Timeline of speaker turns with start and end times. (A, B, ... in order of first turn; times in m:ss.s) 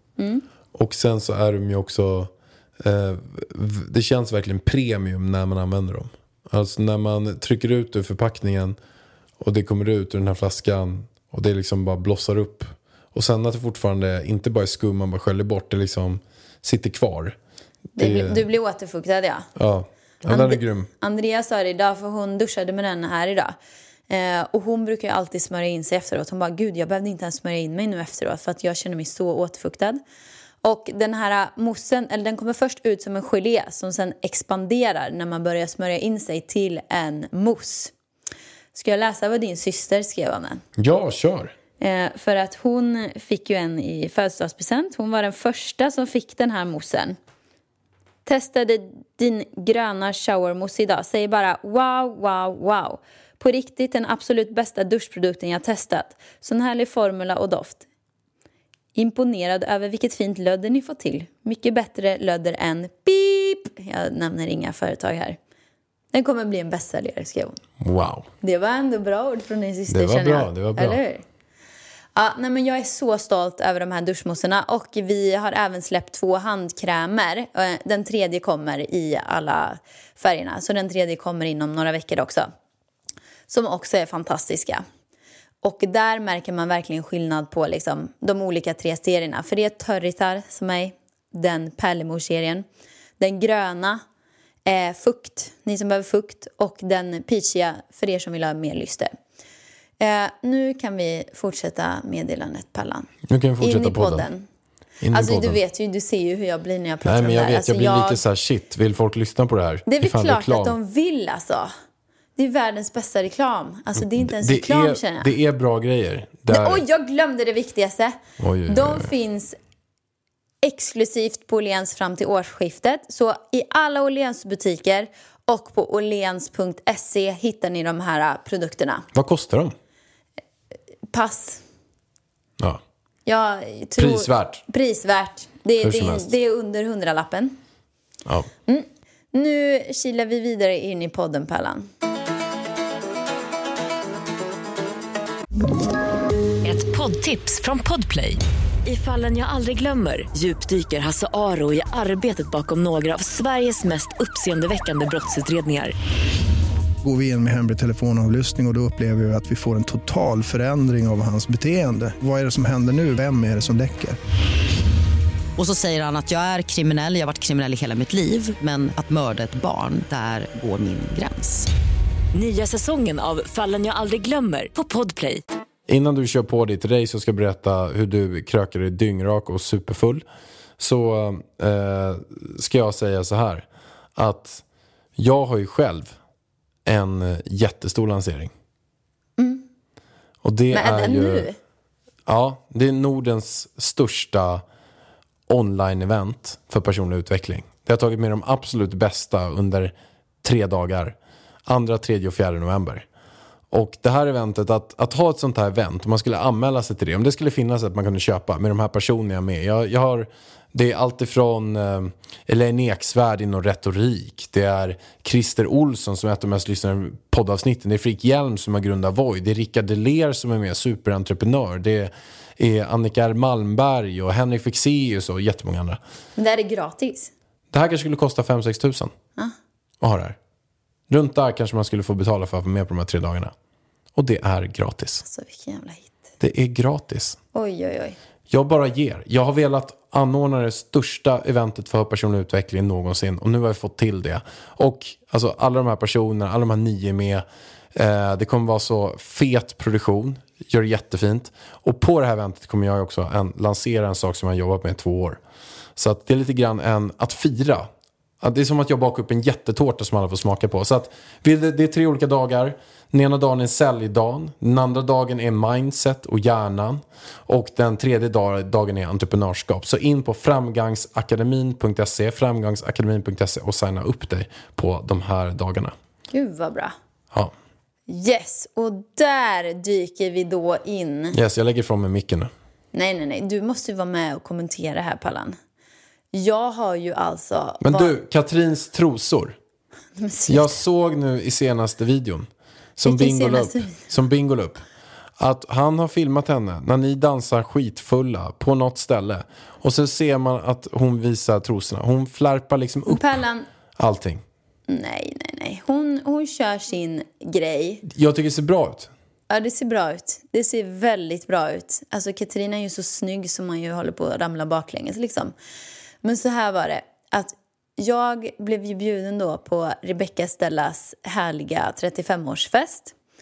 0:00.2-0:00.4 A
0:00.7-0:08.8 B
0:09.4-0:17.4 B
0:18.0-0:19.5 A
0:18.0-0:18.5 B
0:19.6-0:20.9 B
0:20.3-0:23.6 A
0:24.1-0:30.0 A
0:30.6-0:37.9 A
0:38.7-0:40.6 A
0:40.8-0:41.5 B
0:41.8-0:47.2 A
0:48.2-0:57.9 A
0:59.0-1:05.4 A
1:06.1-1:07.6 A
1:07.8-1:08.3 B
1:08.4-1:11.2 A
1:09.9-1:11.0 B
1:12.1-1:22.5 A
1:23.5-1:24.8 A
1:25.6-1:32.6 A
1:33.2-1:34.0 A
1:34.6-1:39.1 A
1:40.0-1:44.5 A
1:43.3-1:44.3 B
1:45.0-1:45.6 B
1:45.1-1:48.2 A
1:47.0-1:50.8 B
1:49.9-1:51.7 A
1:52.4-1:55.3 A
1:54.0-1:56.8 B
1:56.5-1:59.6 A
1:58.4-1:59.1 B
2:00.6-2:09.1 A
2:09.1-2:09.8 B
2:11.1-2:11.6 A
2:13.2-2:17.6 A
2:14.0-2:14.6 B
2:15.8-2:16.3 B
2:18.7-2:21.9 A
2:26.6-2:36.0 C
2:37.0-2:44.2 D
2:45.6-2:51.7 E
2:52.3-2:55.4 C
2:55.9-3:00.2 B
3:00.8-3:04.6 B
3:05.2-3:06.1 B
3:06.8-3:08.5 B
3:09.4-3:09.6 A
3:10.4-3:11.5 B
3:10.7-3:11.6 A
3:12.2-3:14.6 B
3:15.5-3:21.2 B
3:21.7-3:23.1 B
3:23.7-3:46.0 B
3:46.4-3:47.3 A
3:47.7-3:49.1 B
3:50.0-3:50.4 B
3:51.1-3:53.5 B
3:54.1-3:55.2 B
3:55.2-3:56.1 A
3:56.4-3:57.4 B
3:57.5-3:58.2 A
3:58.5-4:15.4 B
4:16.0-4:17.9 B
4:18.4-4:36.0 B
4:36.3-4:37.0 A
4:38.1-4:41.4 A
4:41.3-4:42.5 B
4:42.9-4:45.6 A
4:46.3-4:48.1 A
4:47.8-4:49.6 B
4:50.2-4:50.8 A
4:50.5-4:54.8 B
4:53.0-4:54.0 A
4:55.4-5:03.4 B
5:03.1-5:03.6 A
5:04.0-5:04.4 B
5:04.9-5:08.0 A
5:08.1-5:09.1 B
5:09.5-5:15.5 A
5:16.2-5:23.1 A